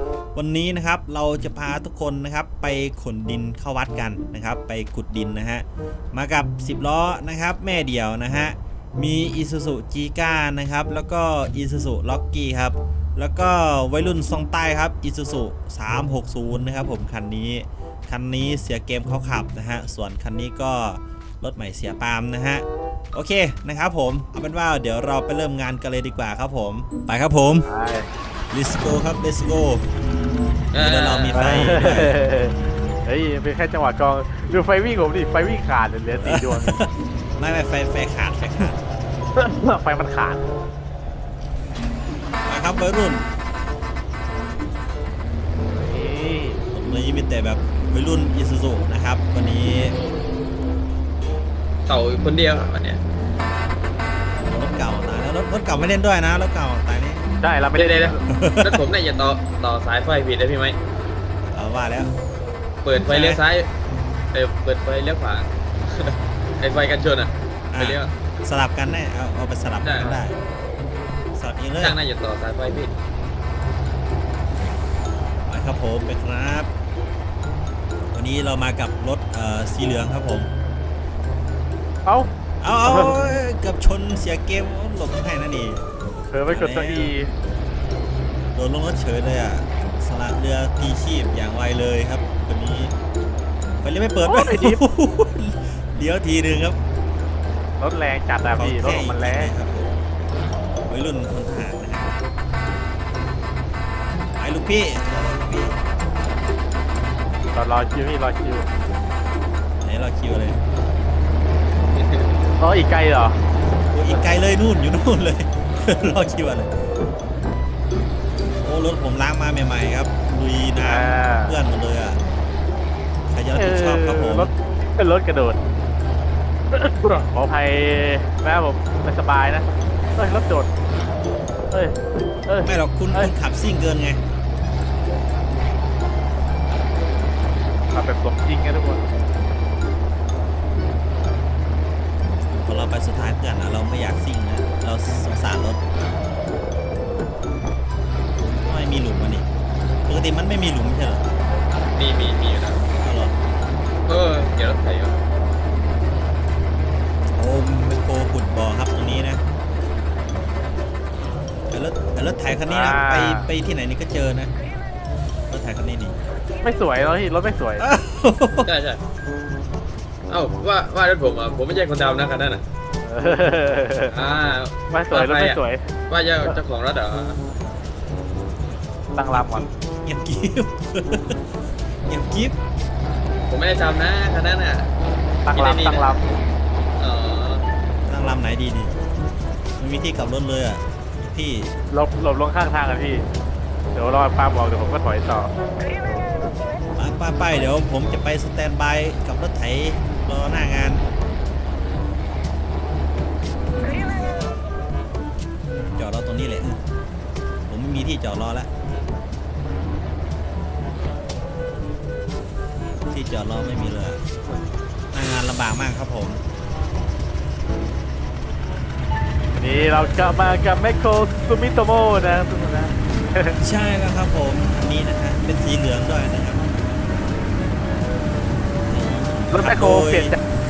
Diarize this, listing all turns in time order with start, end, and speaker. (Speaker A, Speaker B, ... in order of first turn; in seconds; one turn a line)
Speaker A: 0.3-27.6
Speaker B: 27.6-28.1
Speaker A: 28.5-29.8
Speaker C: 30.7-31.4
Speaker A: 30.7-32.2
Speaker B: 31.3-36.8
Speaker A: 36.2-38.8
Speaker B: 39.4-40.4
Speaker A: 42.5-43.2
Speaker B: 45.7-46.6
Speaker A: 46.7-49.9
Speaker C: 51.9-53.0
Speaker A: 54.4-57.3
Speaker B: 57.4-58.2
Speaker C: 57.7-60.8
Speaker A: 58.3-58.9
Speaker A: 61.5-62.1
Speaker C: 62.8-63.7
Speaker A: 63.1-63.4
Speaker C: 64.3-68.1
Speaker A: 67.7-70.4
Speaker C: 69.8-70.2
Speaker A: 71.3-72.0
Speaker C: 71.8-72.9
Speaker A: 75.5-76.7
Speaker A: 78.1-80.5
Speaker A: 82.6-85.9
Speaker B: 82.8-83.2
Speaker B: 86.3-87.3
Speaker A: 86.5-87.1
Speaker A: 88.5-92.9
Speaker A: 93.8-96.8
Speaker B: 94.2-94.8
Speaker B: 97.8-99.5
Speaker A: 98.5-100.0
Speaker A: 100.9-102.2
Speaker A: 104.4-105.8
Speaker B: 107.5-108.7
Speaker A: 109.8-110.6
Speaker C: 111.9-112.4
Speaker B: 112.6-113.4
Speaker A: 113.9-116.7
Speaker A: 118.6-122.2
Speaker B: 120.8-121.5
Speaker A: 123.3-124.5
Speaker B: 123.5-125.6
Speaker B: 126.7-130.7
Speaker B: 131.7-133.3
Speaker A: 132.6-134.2
Speaker B: 137.9-139.0
Speaker A: 142.5-145.8
Speaker A: 148.4-149.5
Speaker A: 150.1-151.3
Speaker C: 151.7-152.8
Speaker A: 153.0-153.3
Speaker C: 154.1-155.2
Speaker A: 157.3-159.4
Speaker A: 161.7-164.5
Speaker B: 162.7-163.5
Speaker A: 165.5-166.1
Speaker B: 166.6-167.9
Speaker A: 167.8-168.7
Speaker C: 168.6-169.0
Speaker C: 170.3-172.6
Speaker B: 173.0-174.1
Speaker C: 174.1-175.6
Speaker B: 174.9-175.8
Speaker C: 176.1-177.4
Speaker B: 179.1-179.7
Speaker A: 179.3-181.4
Speaker A: 182.1-182.6
Speaker C: 183.5-184.9
Speaker B: 185.4-186.4
Speaker C: 185.5-186.2
Speaker C: 187.0-187.7
Speaker A: 188.1-188.9
Speaker A: 189.8-191.7
Speaker B: 191.9-193.2
Speaker B: 193.9-195.5
Speaker A: 197.0-201.0
Speaker A: 205.9-206.8
Speaker A: 207.7-208.7
Speaker A: 213.1-214.2
Speaker A: 215.1-216.4
Speaker B: 219.6-223.6
Speaker A: 223.6-226.7
Speaker A: 228.8-230.4
Speaker B: 229.5-230.4